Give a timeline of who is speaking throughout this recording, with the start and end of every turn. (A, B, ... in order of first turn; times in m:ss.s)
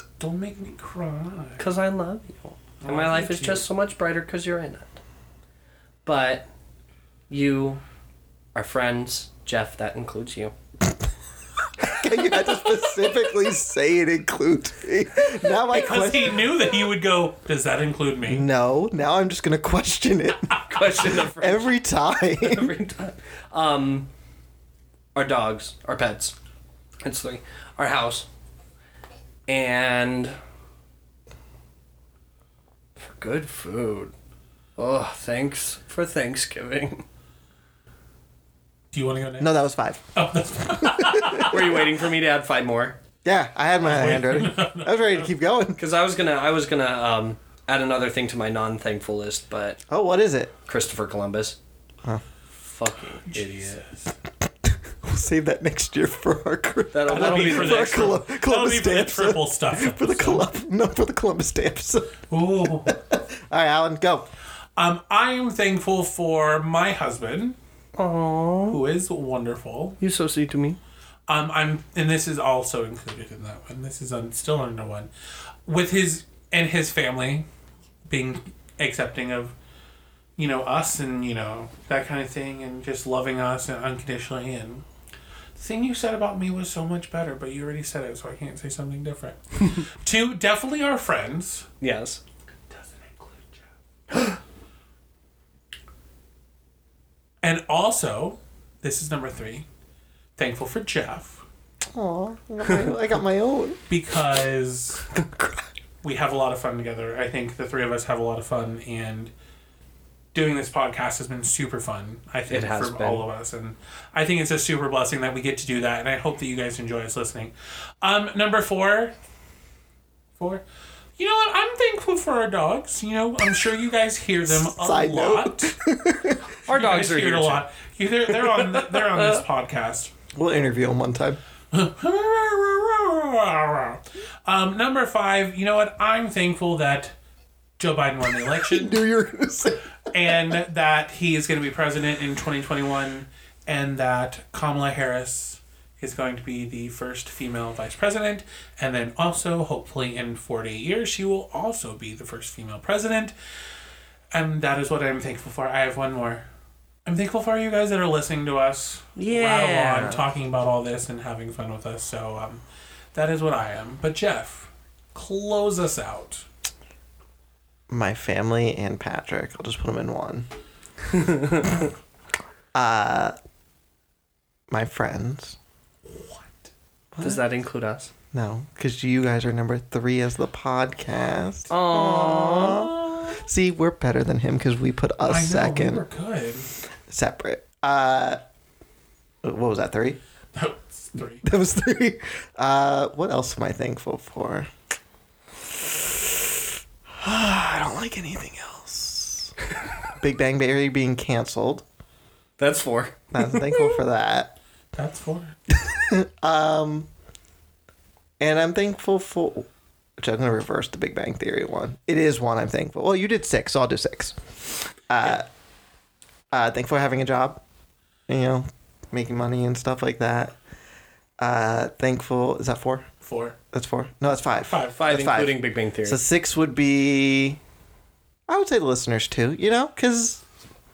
0:00.2-0:01.6 A
0:01.6-0:05.0 B
0:02.8-0:03.6 A
0:06.0-0:06.5 B
0:07.3-0:07.8 B
0:08.5-0:10.5 B
0:11.8-0:16.5 C
0:12.2-0:12.7 B
0:15.7-0:18.4 A
0:18.3-0:22.7 C
0:20.5-0:21.7 B
0:22.4-0:24.1 B
0:25.1-0:26.4 B
0:27.0-0:28.3 B
0:29.5-0:30.4 B
0:33.0-0:34.1 B
0:34.8-0:37.0 B
0:38.9-0:39.5 A
0:39.4-0:40.0 C
0:40.1-0:41.9 A
0:40.8-0:41.5 C
0:41.4-0:43.0 B
0:43.2-0:45.8 C
0:43.8-0:45.3 A
0:45.8-0:49.8 B
0:49.9-0:50.5 C
0:50.7-0:51.6 B
0:52.6-0:53.8 B
0:53.3-0:54.1 A
0:54.9-1:02.2 C
0:56.9-0:58.1 B
0:57.1-1:00.5 A
1:02.3-1:03.0 A
1:02.8-1:04.3 C
1:04.8-1:07.6 A
1:08.0-1:08.8 B
1:08.7-1:10.0 A
1:10.0-1:10.8 B
1:11.3-1:15.1 A
1:15.6-1:17.4 A
1:18.1-1:19.5 A
1:20.4-1:24.8 A
1:25.6-1:31.7 A
1:31.8-1:32.2 B
1:32.7-1:33.6 A
1:37.4-1:39.6 A
1:40.4-1:41.4 A
1:41.9-1:43.8 C
1:43.9-1:45.1 A
1:46.0-1:49.3 A
1:50.3-1:59.2 A
1:52.5-1:53.2 B
2:00.4-2:00.6 A
2:01.2-2:05.7 A
2:04.4-2:06.4 C
2:06.6-2:07.6 B
2:06.7-2:10.1 A
2:08.3-2:09.4 B
2:10.3-2:11.4 C
2:11.7-2:17.2 A
2:17.8-2:19.0 A
2:18.5-2:19.8 C
2:20.1-2:33.3 A
2:34.3-2:36.4 A
2:37.0-2:42.6 A
2:39.2-2:40.2 B
2:43.1-2:46.4 A
2:47.9-2:50.5 C
2:51.1-2:51.7 B
2:52.7-2:53.4 C
2:54.7-2:55.6 C
2:56.1-2:56.7 A
2:57.1-2:57.4 C
2:57.2-2:58.1 B
2:58.3-3:06.0 C
3:01.7-3:03.2 B
3:05.2-3:06.7 A
3:07.1-3:08.4 C
3:09.4-3:10.2 C
3:10.5-3:11.4 A
3:11.4-3:14.7 C
3:15.7-3:16.6 C
3:17.2-3:19.6 C
3:20.1-3:21.8 C
3:22.6-3:23.2 B
3:23.3-3:24.6 C
3:24.9-3:25.5 A
3:25.7-3:27.1 C
3:28.4-3:34.4 C
3:35.1-3:35.5 C
3:36.5-3:37.6 C
3:38.3-3:40.6 C
3:41.4-3:43.0 C
3:43.2-3:43.6 A
3:43.7-3:47.6 C
3:44.6-3:45.0 A
3:45.0-3:46.2 B
3:48.5-3:50.4 C